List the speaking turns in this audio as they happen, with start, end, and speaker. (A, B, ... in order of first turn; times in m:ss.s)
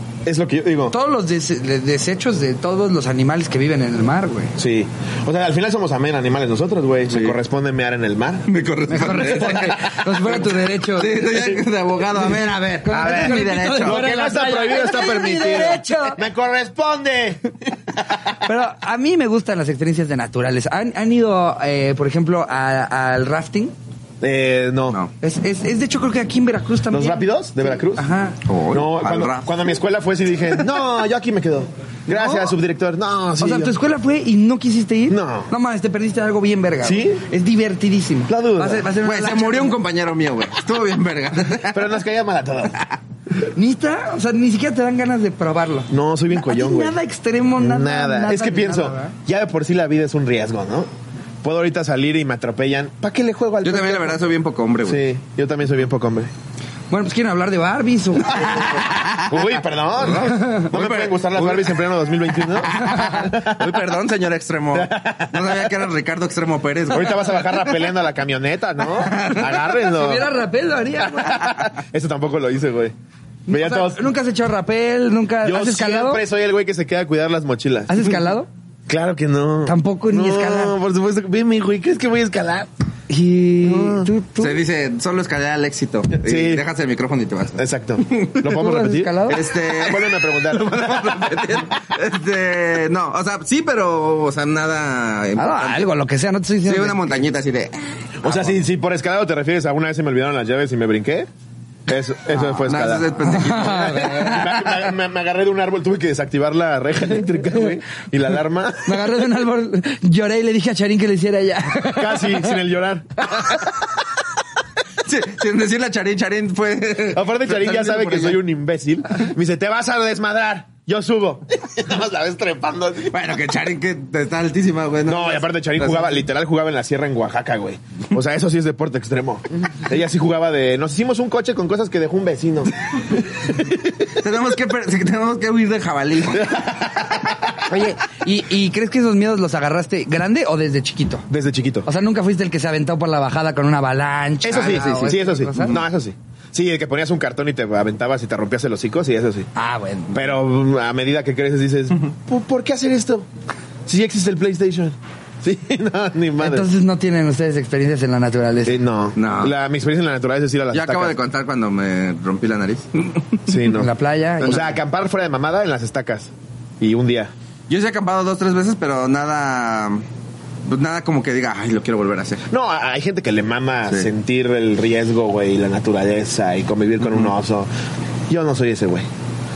0:00.3-0:01.0 A
0:00.9-0:04.6 B
0:04.6-0:08.5 A
0:07.1-0:07.4 C
0:08.5-0:14.0 C
0:08.9-0:11.2 B
0:12.8-0:16.2 B
0:12.9-0:18.4 A
0:18.4-0:23.7 B
0:24.2-0:25.0 A
0:25.2-0:28.4 B
0:26.9-0:28.0 A
0:28.4-0:29.5 C
0:28.7-0:33.8 A
0:32.1-0:32.6 B
0:33.4-0:39.8 B
0:35.1-0:35.5 A
0:36.8-0:37.2 A
0:38.3-0:38.9 A
0:39.0-0:41.9 C
0:41.7-0:42.8 A
0:43.5-0:49.1 B
0:45.9-0:47.0 A
0:47.6-0:50.9 A
0:51.4-0:54.2 A
0:53.6-0:55.0 C
0:54.8-0:56.3 A
0:56.9-0:58.8 B
0:58.3-1:07.5 C
0:59.2-1:03.8 A
1:04.7-1:05.7 A
1:06.9-1:10.4 A
1:08.9-1:09.6 C
1:09.6-1:11.6 B
1:11.1-1:12.9 A
1:13.5-1:14.0 A
1:13.5-1:16.2 B
1:15.4-1:18.1 A
1:17.9-1:18.5 B
1:18.9-1:22.7 A
1:19.7-1:20.8 B
1:23.1-1:24.6 B
1:23.6-1:24.1 A
1:24.4-1:28.4 C
1:26.2-1:26.6 A
1:27.6-1:31.6 A
1:28.5-1:29.4 B
1:29.3-1:35.9 C
1:35.4-1:37.2 B
1:36.6-1:38.6 C
1:38.2-1:41.3 A
1:41.9-1:43.1 A
1:42.3-1:44.8 C
1:43.2-1:44.4 B
1:44.0-1:49.1 A
1:48.8-1:52.6 B
1:51.9-1:53.6 A
1:53.3-1:53.6 B
1:55.0-1:58.4 C
1:57.1-2:03.2 A
2:03.1-2:06.2 C
2:05.1-2:14.0 A
2:14.2-2:16.7 C
2:16.4-2:17.4 A
2:17.7-2:21.3 B
2:21.3-2:21.9 A
2:21.9-2:25.8 B
2:24.4-2:29.5 A
2:24.5-2:25.8 C
2:29.6-2:30.3 B
2:30.1-2:33.3 A
2:33.9-2:36.7 A
2:36.4-2:38.8 B
2:38.7-2:41.2 A
2:39.2-2:39.5 C
2:40.7-2:43.4 C
2:43.5-2:47.3 A
2:43.7-2:44.8 B
2:47.7-2:50.0 C
2:50.7-2:52.5 C
2:52.5-2:57.7 A
2:58.3-2:59.1 A